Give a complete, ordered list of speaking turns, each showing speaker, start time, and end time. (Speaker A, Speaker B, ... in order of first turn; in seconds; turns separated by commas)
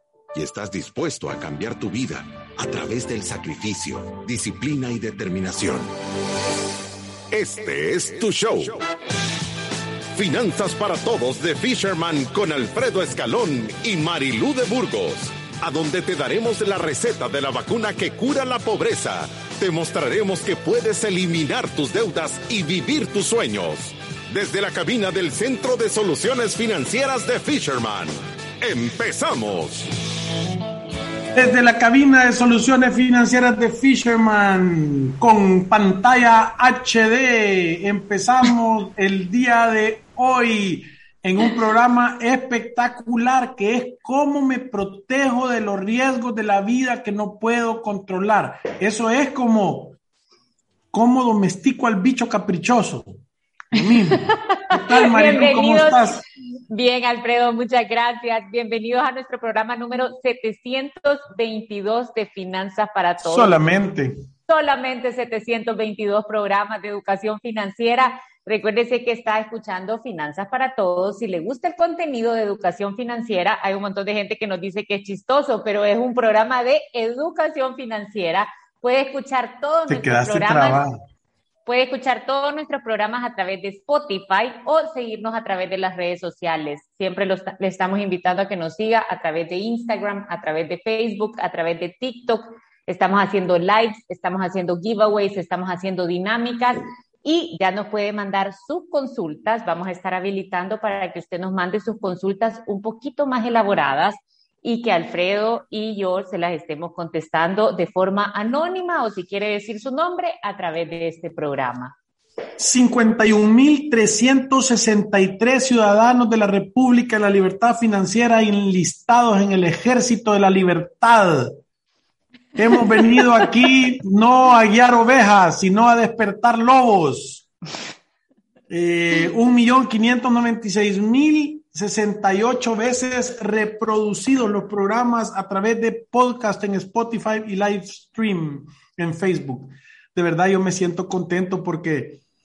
Speaker A: 0.3-5.9, Speaker A: 7.3-8.8, Speaker A: 10.2-29.9, Speaker B: 31.3-50.0, Speaker B: 50.9-56.2, Speaker C: 54.5-56.2, Speaker C: 56.7-63.6, Speaker B: 63.2-64.2, Speaker C: 64.5-80.8, Speaker B: 79.9-81.0, Speaker C: 81.7-112.0, Speaker B: 112.6-121.6, Speaker B: 122.6-127.5, Speaker B: 128.7-142.2